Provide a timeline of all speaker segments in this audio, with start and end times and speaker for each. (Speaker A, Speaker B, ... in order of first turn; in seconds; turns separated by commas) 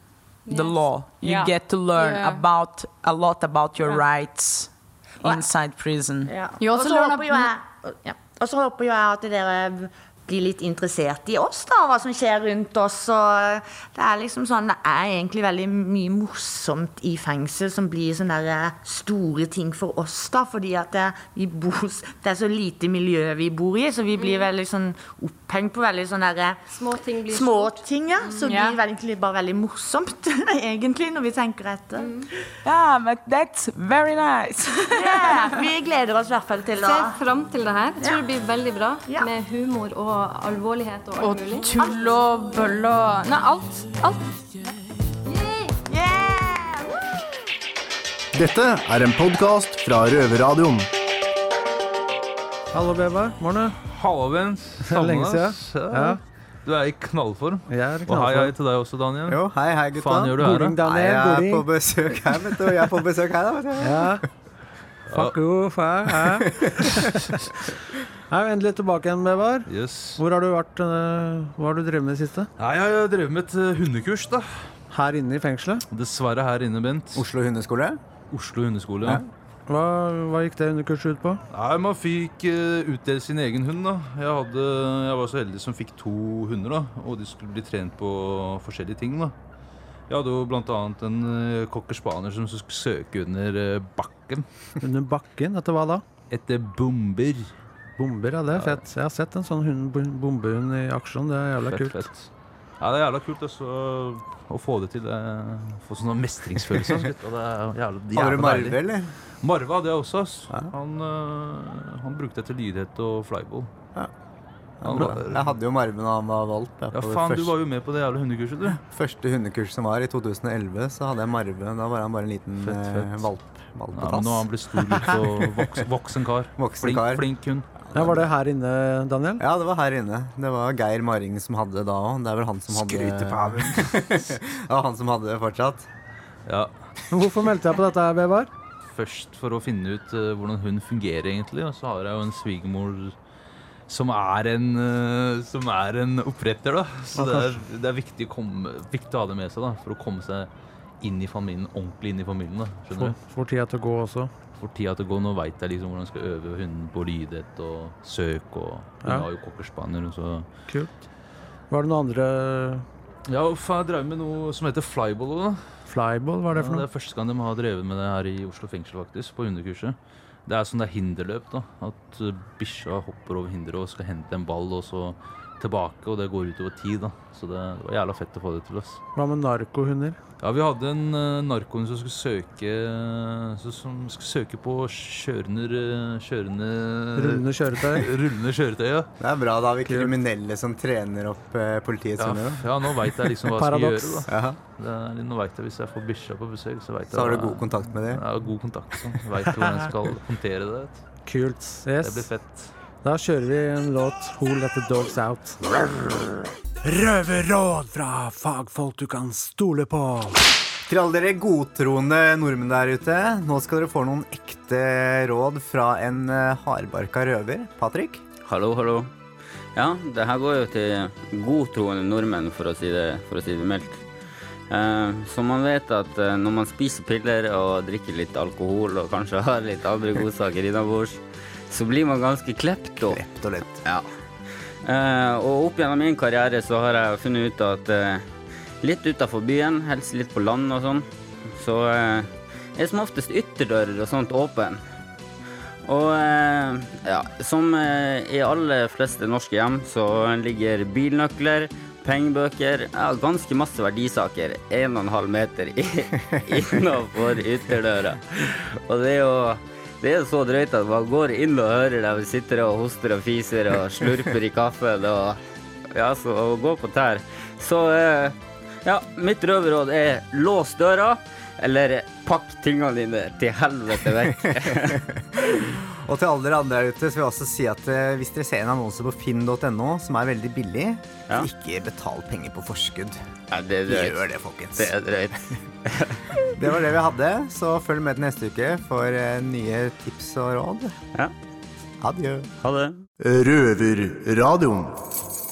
Speaker A: 0.5-6.3, Speaker B: 1.2-1.5, Speaker C: 2.0-2.4, Speaker B: 5.2-5.5, Speaker B: 6.3-26.6, Speaker C: 6.6-7.5, Speaker D: 24.2-24.5, Speaker D: 26.7-27.8, Speaker B: 27.3-32.1, Speaker C: 28.3-28.8, Speaker D: 32.0-32.3, Speaker A: 32.6-35.4, Speaker B: 34.9-37.2, Speaker D: 36.8-41.8, Speaker B: 38.0-38.2, Speaker C: 41.2-44.4, Speaker B: 45.8-47.0, Speaker E: 48.3-50.9, Speaker F: 52.7-53.8, Speaker G: 53.9-59.4, Speaker F: 54.8-56.2, Speaker F: 57.7-58.5, Speaker H: 59.3-64.1, Speaker G: 60.0-60.8, Speaker F: 60.4-61.7, Speaker F: 63.8-64.2, Speaker G: 65.1-65.4, Speaker F: 65.1-67.2, Speaker F: 68.3-72.5, Speaker G: 69.7-70.2, Speaker G: 72.6-74.7, Speaker F: 74.9-75.8, Speaker G: 75.9-77.3, Speaker H: 77.2-78.0, Speaker G: 78.3-79.2, Speaker F: 79.7-81.4, Speaker G: 81.5-89.3, Speaker G: 90.1-94.5, Speaker F: 94.8-96.0, Speaker G: 96.3-97.5, Speaker F: 98.0-102.1, Speaker G: 98.5-98.8, Speaker G: 101.6-108.8, Speaker H: 108.1-109.1, Speaker G: 109.4-113.7, Speaker H: 114.8-117.5, Speaker G: 114.8-115.6, Speaker G: 116.9-118.8, Speaker H: 118.7-125.5, Speaker G: 122.6-123.3, Speaker G: 123.9-127.7, Speaker H: 126.6-127.2, Speaker H: 127.9-128.2, Speaker F: 127.9-129.4, Speaker H: 129.4-135.9, Speaker G: 132.8-133.8, Speaker G: 136.5-136.7, Speaker F: 137.1-138.5, Speaker G: 138.9-143.2, Speaker G: 143.9-150.5, Speaker F: 147.2-147.6, Speaker G: 151.0-153.2, Speaker F: 152.9-154.3, Speaker G: 154.6-160.5, Speaker F: 159.0-159.3, Speaker F: 161.7-162.9, Speaker G: 163.3-165.7, Speaker F: 165.9-166.9, Speaker G: 166.5-179.0, Speaker F: 179.2-180.2, Speaker G: 180.4-189.1, Speaker F: 187.2-188.1, Speaker H: 189.2-192.6, Speaker F: 189.9-190.2, Speaker G: 192.2-201.0, Speaker F: 193.6-194.2, Speaker H: 194.3-194.6, Speaker H: 197.1-198.2, Speaker F: 199.5-199.9, Speaker F: 201.3-202.3, Speaker G: 202.0-202.7, Speaker F: 203.0-205.6, Speaker F: 206.8-210.4, Speaker H: 210.9-218.2, Speaker I: 218.5-219.1, Speaker I: 219.8-224.1, Speaker I: 224.7-233.2, Speaker H: 233.1-233.8, Speaker I: 233.8-234.1, Speaker I: 234.8-238.3, Speaker I: 238.8-244.8, Speaker I: 245.9-265.4, Speaker I: 265.9-275.0, Speaker H: 274.4-283.2, Speaker I: 283.5-284.2, Speaker H: 283.9-284.9, Speaker I: 284.8-286.2, Speaker H: 286.6-290.9, Speaker H: 292.0-292.5, Speaker I: 292.6-293.0, Speaker E: 293.2-294.9